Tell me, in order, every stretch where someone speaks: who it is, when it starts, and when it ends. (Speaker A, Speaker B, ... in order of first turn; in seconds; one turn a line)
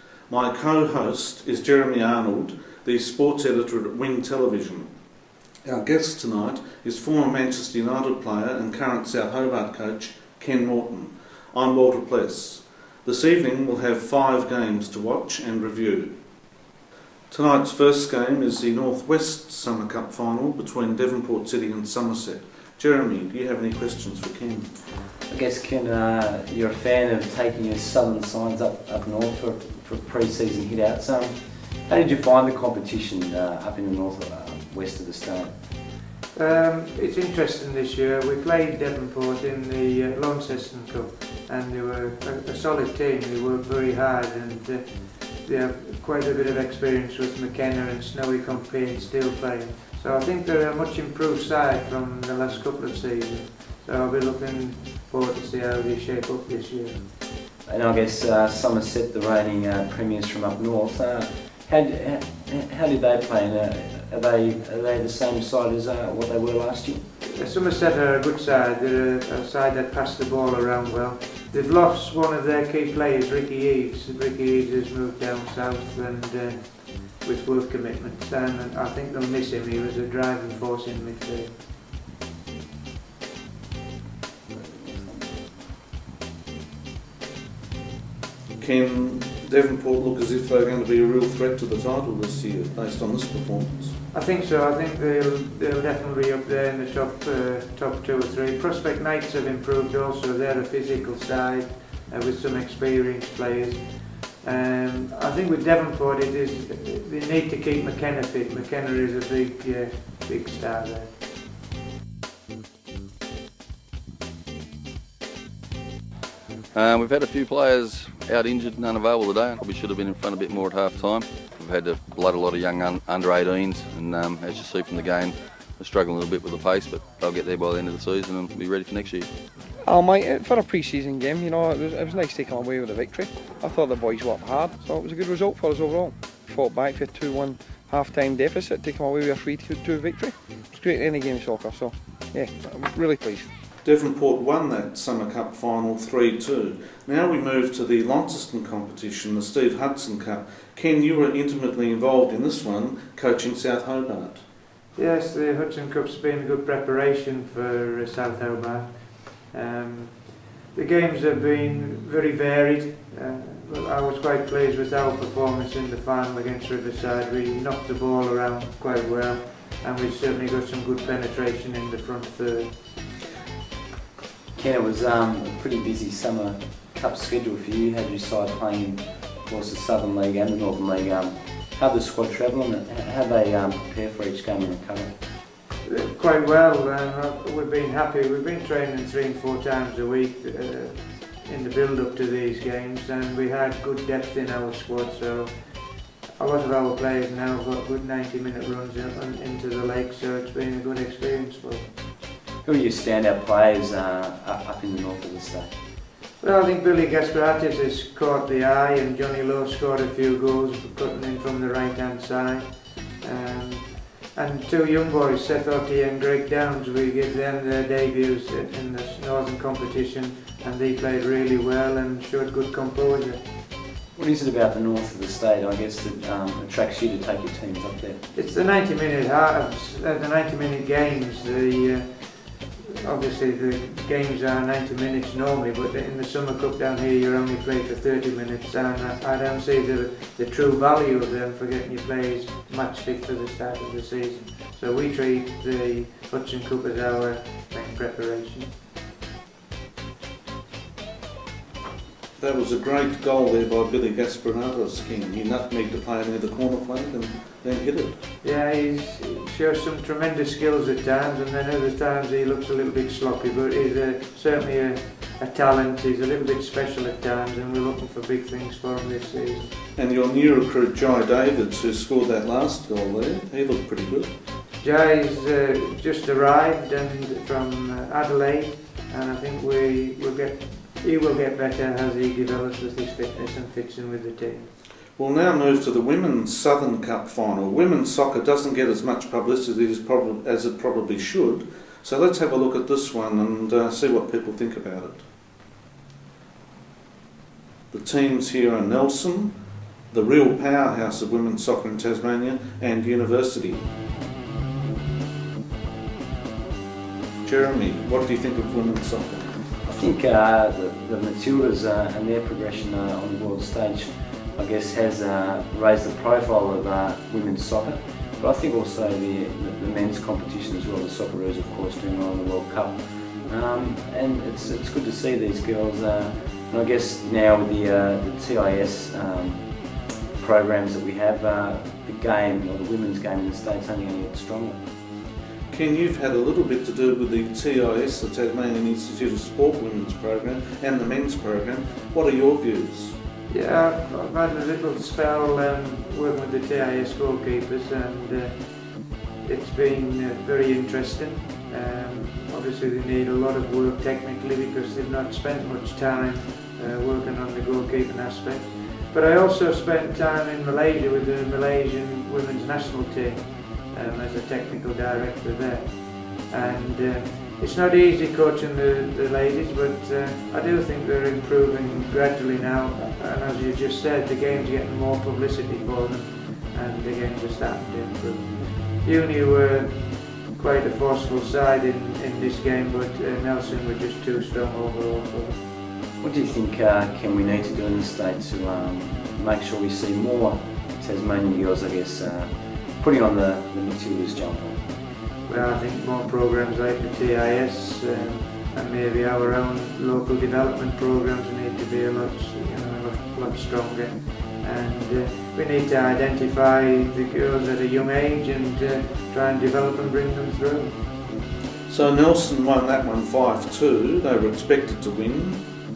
Speaker A: 0.3-4.9
Speaker A: 5.7-16.1
Speaker A: 17.3-24.8
Speaker B: 25.3-35.5
Speaker C: 36.3-57.1
Speaker B: 57.7-67.0
Speaker C: 67.2-81.6
Speaker B: 84.7-85.1
Speaker A: 88.6-94.0
Speaker C: 94.1-111.2
Speaker D: 116.7-129.3
Speaker E: 129.8-143.5
Speaker A: 143.8-154.4
Speaker C: 154.9-172.8
Speaker B: 174.6-185.1
Speaker C: 185.8-202.0
Speaker B: 202.6-205.7
Speaker C: 206.4-223.5
Speaker B: 224.2-228.2
Speaker C: 228.3-248.7
Speaker A: 252.4-258.2
Speaker C: 258.4-269.7
Speaker A: 270.0-274.3
Speaker C: 274.8-284.7
Speaker A: 285.2-295.2
Speaker A: 297.9-303.9
Speaker A: 307.4-309.6
Speaker B: 309.8-334.8
Speaker A: 335.7-343.2
Speaker C: 343.5-385.6
Speaker B: 386.2-394.8
Speaker C: 395.4-411.2
Speaker A: 411.9-415.7